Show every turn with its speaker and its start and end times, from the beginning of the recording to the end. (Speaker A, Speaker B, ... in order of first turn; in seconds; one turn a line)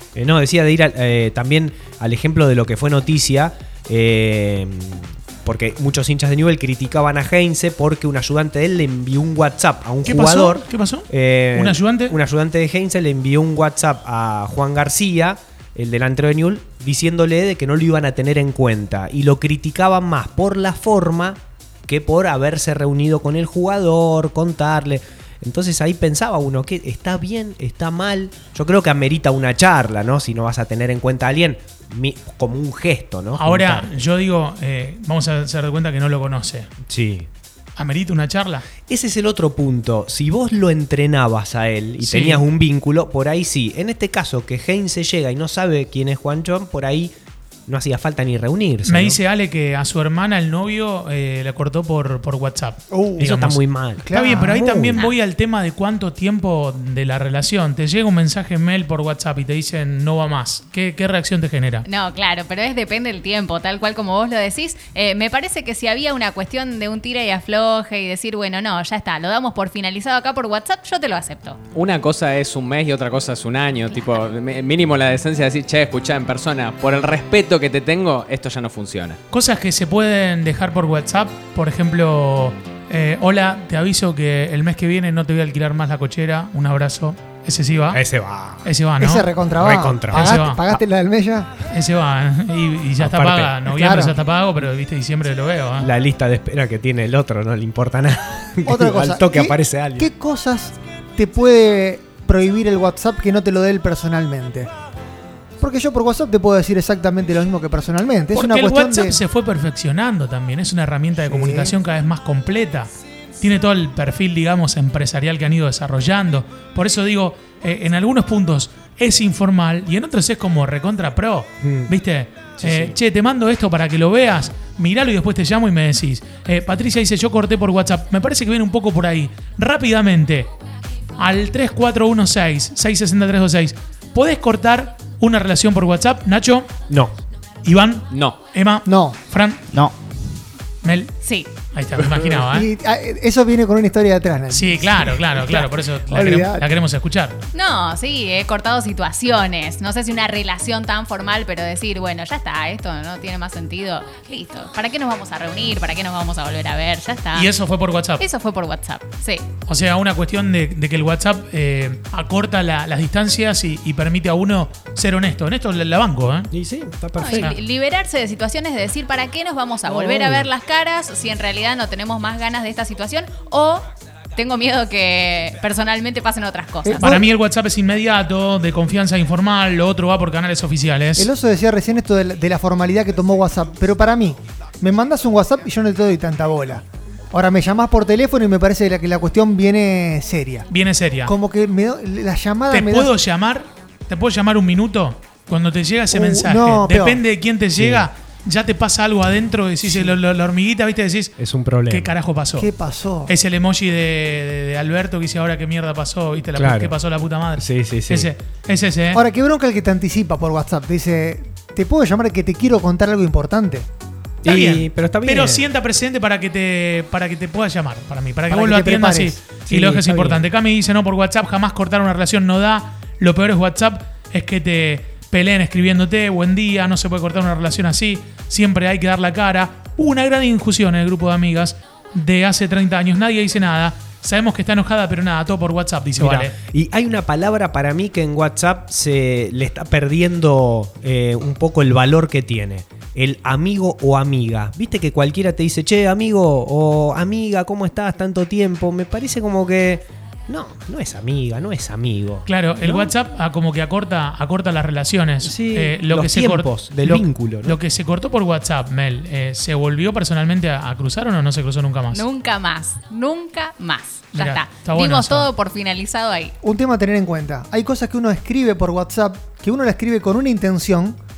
Speaker A: 0.1-33.9
Speaker B: 10.0-12.2
Speaker B: 33.4-36.7
Speaker A: 36.9-37.3
Speaker B: 37.8-38.6
Speaker A: 38.9-47.1
Speaker B: 42.0-42.4
Speaker A: 47.7-49.2
Speaker B: 48.8-61.9
Speaker C: 52.9-53.3
Speaker A: 53.2-55.0
Speaker C: 54.0-54.6
Speaker D: 54.8-55.2
Speaker D: 61.8-71.6
Speaker E: 71.7-79.2
Speaker B: 79.3-88.0
Speaker A: 87.9-88.7
Speaker B: 88.6-89.3
Speaker C: 89.0-91.5
Speaker A: 89.5-90.8
Speaker B: 90.1-90.6
Speaker B: 91.7-95.9
Speaker A: 93.0-93.5
Speaker C: 93.7-94.1
Speaker A: 95.8-100.1
Speaker C: 98.6-104.7
Speaker C: 105.6-109.2
Speaker B: 108.3-130.5
Speaker C: 111.2-111.7
Speaker A: 121.6-121.9
Speaker A: 122.6-123.0
Speaker B: 131.2-136.7
Speaker B: 137.6-139.6
Speaker E: 138.1-138.4
Speaker C: 138.8-139.2
Speaker B: 140.8-141.1
Speaker D: 141.2-141.6
Speaker B: 141.7-142.7
Speaker C: 142.3-146.7
Speaker B: 144.5-147.4
Speaker D: 147.5-157.5
Speaker B: 157.3-158.2
Speaker D: 158.2-159.5
Speaker B: 159.7-166.5
Speaker A: 166.5-167.5
Speaker D: 167.2-177.2
Speaker B: 167.3-167.6
Speaker A: 169.9-170.5
Speaker C: 176.8-177.2
Speaker B: 176.9-181.3
Speaker C: 181.2-190.7
Speaker B: 190.7-191.3
Speaker C: 191.2-193.1
Speaker B: 192.7-201.3
Speaker C: 196.1-197.2
Speaker A: 197.7-198.1
Speaker C: 199.8-200.1
Speaker A: 201.4-202.1
Speaker B: 201.9-202.7
Speaker C: 202.6-203.3
Speaker B: 203.3-209.2
Speaker A: 206.6-207.0
Speaker A: 207.6-208.3
Speaker C: 209.1-213.9
Speaker A: 214.4-215.7
Speaker B: 214.4-236.5
Speaker C: 218.5-219.4
Speaker A: 219.7-220.4
Speaker A: 236.2-253.1
Speaker B: 252.4-262.2
Speaker A: 255.4-257.8
Speaker D: 262.1-266.5
Speaker B: 264.3-265.5
Speaker C: 266.6-271.2